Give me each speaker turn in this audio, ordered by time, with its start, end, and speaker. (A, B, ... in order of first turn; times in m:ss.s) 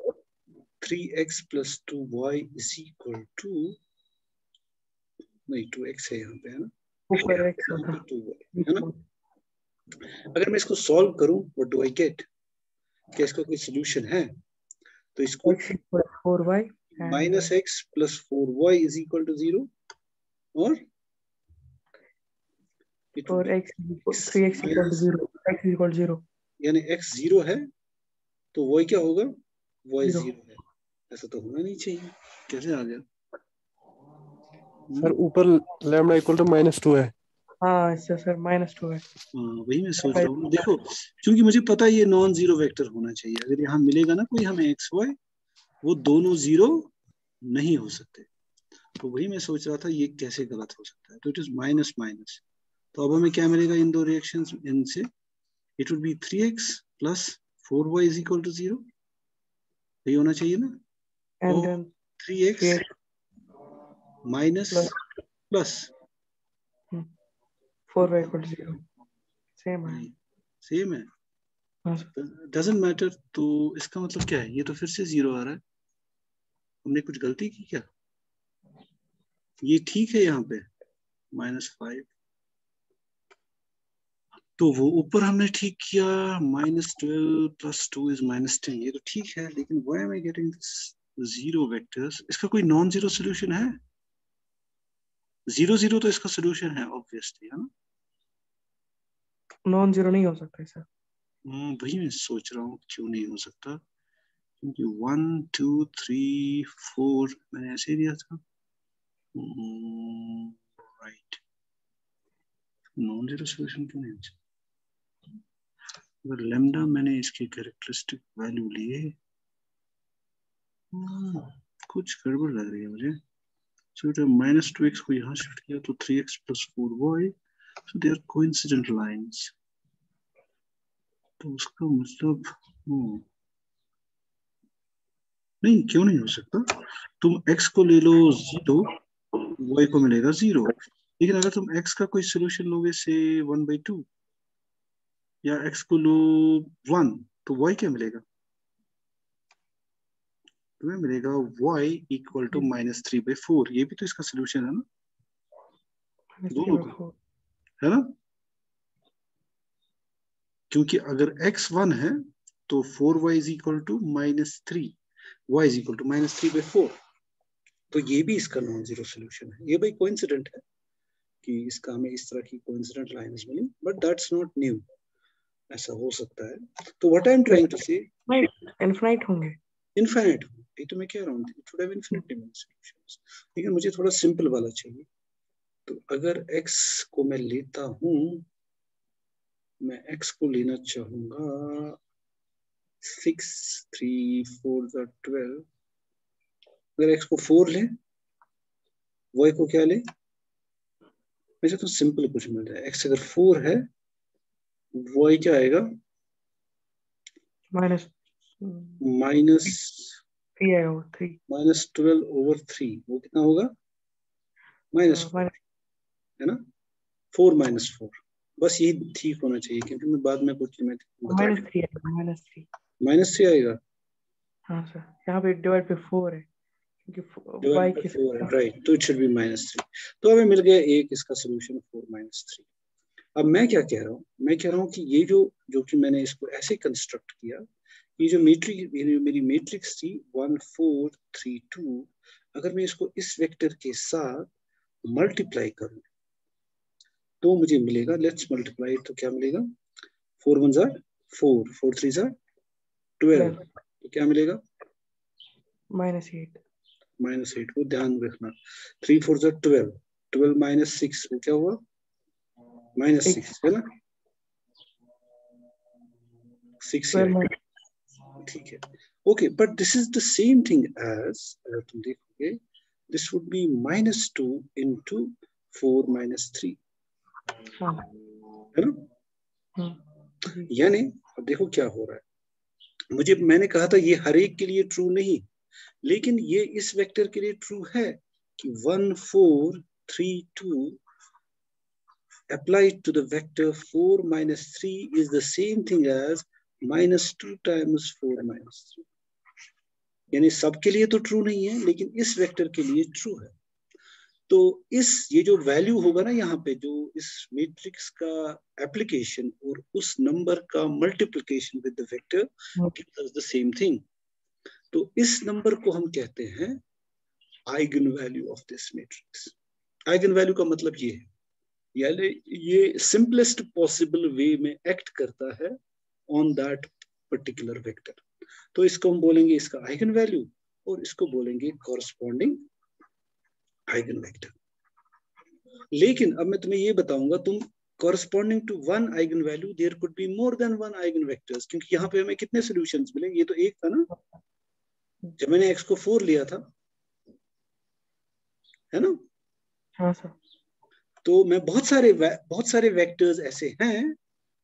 0:00.8-0:03.8 A
0:05.5-0:08.9 A
0:07.1-0:08.0 B
0:08.6-0:09.0 B
0:10.3-0:12.2 A
0:13.1-0:14.3 A
0:15.2-0:15.6 A
0:15.4-0:17.4 B
0:17.0-0:19.7 A
0:20.6-0:20.8 A
0:23.1-0:25.0 A
0:23.2-0:26.2 B
0:26.6-0:27.7 A
0:28.5-0:29.3 A
0:29.9-0:30.6 A
0:30.0-0:30.3 B
0:31.1-0:33.0 A
0:35.0-0:37.1 C
0:37.6-0:39.0 B
0:39.3-0:45.2 A
0:45.8-0:46.9 A
0:47.4-0:48.3 A
0:49.0-0:52.4 A
0:52.9-0:55.1 A
0:55.8-0:58.9 A
1:00.0-1:00.8 A
1:01.4-1:01.9 B
1:01.5-1:02.8 A
1:02.6-1:02.8 B
1:04.2-1:05.0 A
1:05.5-1:05.9 A
1:07.9-1:08.8 B
1:09.6-1:10.0 B
1:09.8-1:10.1 A
1:10.6-1:11.1 A
1:11.8-1:12.1 B
1:12.2-1:15.6 A
1:16.8-1:17.8 A
1:19.6-1:20.7 A
1:21.3-1:22.1 A
1:24.6-1:33.8 A
1:35.5-1:37.7 A
1:39.6-1:40.8 B
1:41.4-1:43.8 A
1:44.6-1:48.4 A
1:49.3-1:51.4 A
1:53.0-1:54.4 A
1:56.2-1:59.2 A
2:00.9-2:03.2 A
2:04.0-2:07.3 A
2:07.9-2:09.5 A
2:11.4-2:13.2 A
2:15.6-2:16.7 A
2:17.2-2:18.9 A
2:19.6-2:24.0 A
2:25.4-2:28.2 A
2:30.8-2:34.8 A
2:36.4-2:37.1 B
2:36.5-2:37.0 A
2:37.8-2:38.1 A
2:40.7-2:45.0 A
2:45.5-2:47.0 A
2:47.9-2:50.6 A
2:51.4-2:54.8 A
2:55.7-2:58.1 A
2:58.3-2:59.6 B
3:00.0-3:05.1 A
3:05.8-3:08.4 A
3:09.8-3:12.0 A
3:13.0-3:15.6 A
3:17.0-3:17.9 A
3:19.3-3:20.0 A
3:21.6-3:23.9 A
3:24.9-3:25.9 A
3:27.7-3:29.0 B
3:29.0-3:30.2 A
3:30.6-3:31.4 B
3:31.5-3:33.7 A
3:34.9-3:35.5 A
3:35.1-3:35.5 B
3:37.3-3:41.6 A
3:41.3-3:42.6 B
3:43.0-3:43.8 A
3:44.7-3:46.5 B
3:47.0-3:48.5 B
3:47.6-3:52.6 A
3:53.4-3:57.6 A
3:58.2-4:04.5 A
4:05.0-4:06.0 A
4:07.4-4:09.7 A
4:10.4-4:12.3 A
4:13.2-4:14.6 A
4:13.3-4:13.6 B
4:15.9-4:16.6 B
4:17.2-4:21.8 A
4:23.0-4:23.9 A
4:26.8-4:27.4 A
4:27.1-4:27.5 B
4:28.4-4:32.6 A
4:33.1-4:36.8 A
4:37.8-4:38.0 B
4:38.7-4:39.0 A
4:39.8-4:40.7 B
4:40.7-4:42.2 A
4:43.1-4:45.4 A
4:46.0-4:51.0 A
4:52.5-4:59.0 A
5:00.3-5:03.5 A
5:04.5-5:14.0 A
5:14.9-5:16.8 A
5:17.7-5:19.5 A
5:20.1-5:21.3 A
5:22.0-5:25.8 A
5:26.3-5:28.2 A
5:28.7-5:32.6 A
5:33.9-5:34.5 A
5:35.9-5:44.1 A
5:45.4-5:46.6 A
5:48.9-5:49.2 A
5:50.0-5:50.3 B
5:51.2-5:54.2 A